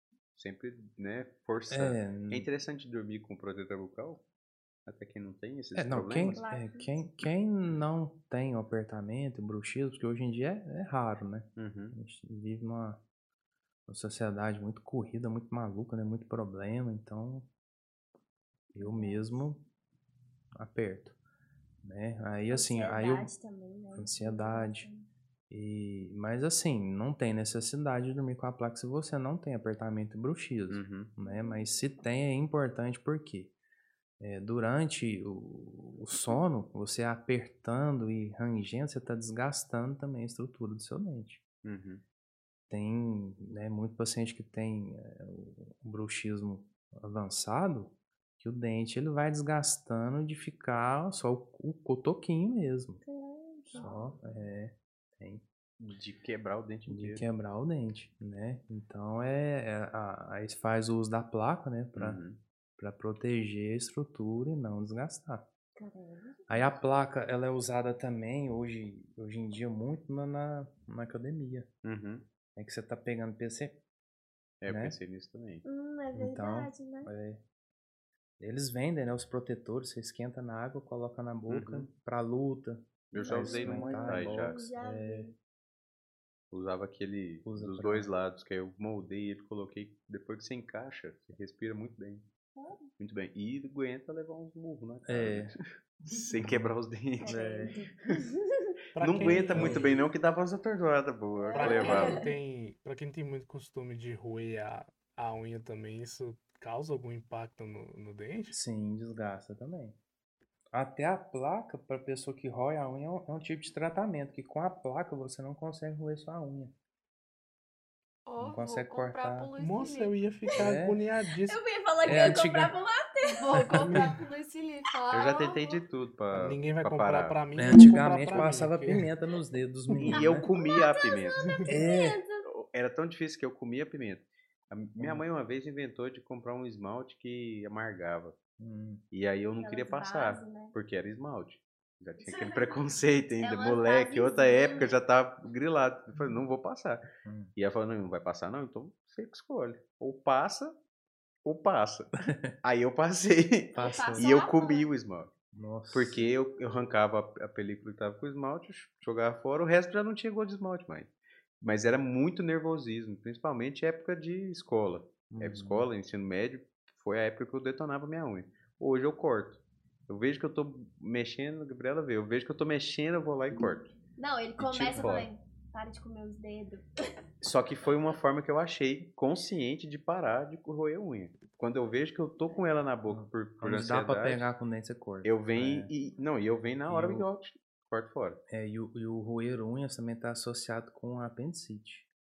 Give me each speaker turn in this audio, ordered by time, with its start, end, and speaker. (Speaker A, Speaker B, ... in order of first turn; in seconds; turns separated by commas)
Speaker A: 0.3-4.2, Speaker B: 1.7-2.5, Speaker A: 4.8-6.4, Speaker B: 5.7-13.0, Speaker C: 6.3-7.0, Speaker A: 11.6-11.9, Speaker B: 13.9-17.5, Speaker B: 18.7-19.6, Speaker C: 18.8-19.5, Speaker B: 20.6-21.1, Speaker B: 21.8-23.3, Speaker C: 22.5-25.1, Speaker B: 23.9-24.9, Speaker B: 25.5-33.5, Speaker A: 30.7-31.1, Speaker C: 31.2-31.8, Speaker B: 34.2-41.4, Speaker A: 41.6-42.0, Speaker B: 42.7-53.0, Speaker C: 53.0-54.1, Speaker B: 53.7-55.4, Speaker A: 55.8-57.2, Speaker B: 56.9-62.2, Speaker A: 61.9-62.4, Speaker B: 62.8-65.4, Speaker C: 65.8-66.8, Speaker B: 66.5-71.7, Speaker A: 71.8-72.2, Speaker B: 72.5-73.8, Speaker A: 74.6-75.6, Speaker B: 74.7-75.0, Speaker C: 75.6-77.1, Speaker B: 76.1-77.4, Speaker B: 78.4-85.3, Speaker A: 81.5-81.9, Speaker A: 83.1-84.6, Speaker C: 83.1-85.3, Speaker A: 86.5-92.2, Speaker B: 87.4-88.1, Speaker C: 92.5-92.9, Speaker A: 93.0-97.4, Speaker B: 95.1-95.5, Speaker B: 96.4-97.7, Speaker C: 97.2-98.8, Speaker D: 98.9-100.0, Speaker A: 99.0-102.2, Speaker B: 99.2-99.9, Speaker C: 101.4-102.3, Speaker D: 101.5-108.5, Speaker B: 108.5-110.0, Speaker B: 110.7-116.7, Speaker E: 118.2-120.1, Speaker B: 118.4-119.5, Speaker D: 119.6-121.6, Speaker B: 120.5-121.0, Speaker C: 121.5-123.9, Speaker B: 122.0-122.7, Speaker E: 123.2-125.8, Speaker B: 123.6-124.0, Speaker D: 123.7-124.2, Speaker A: 125.1-127.4, Speaker D: 126.3-129.1, Speaker B: 127.5-130.4, Speaker A: 130.0-131.4, Speaker C: 130.1-132.4, Speaker B: 131.7-132.2, Speaker A: 132.4-138.3, Speaker B: 135.0-135.2, Speaker B: 138.6-139.0, Speaker A: 139.1-147.0, Speaker C: 139.6-140.7, Speaker C: 142.2-142.8, Speaker C: 143.4-144.9, Speaker B: 147.2-147.5, Speaker A: 147.6-150.7, Speaker A: 151.4-155.3, Speaker B: 152.3-152.5, Speaker B: 153.7-154.3, Speaker C: 153.8-154.9, Speaker B: 155.5-156.3, Speaker A: 155.9-161.1, Speaker C: 156.2-156.6, Speaker A: 161.6-173.9, Speaker B: 165.3-165.9, Speaker C: 174.2-176.8, Speaker A: 174.6-175.3, Speaker A: 177.4-184.5, Speaker B: 183.1-185.9, Speaker A: 185.2-188.4, Speaker B: 186.9-187.3, Speaker B: 188.5-192.1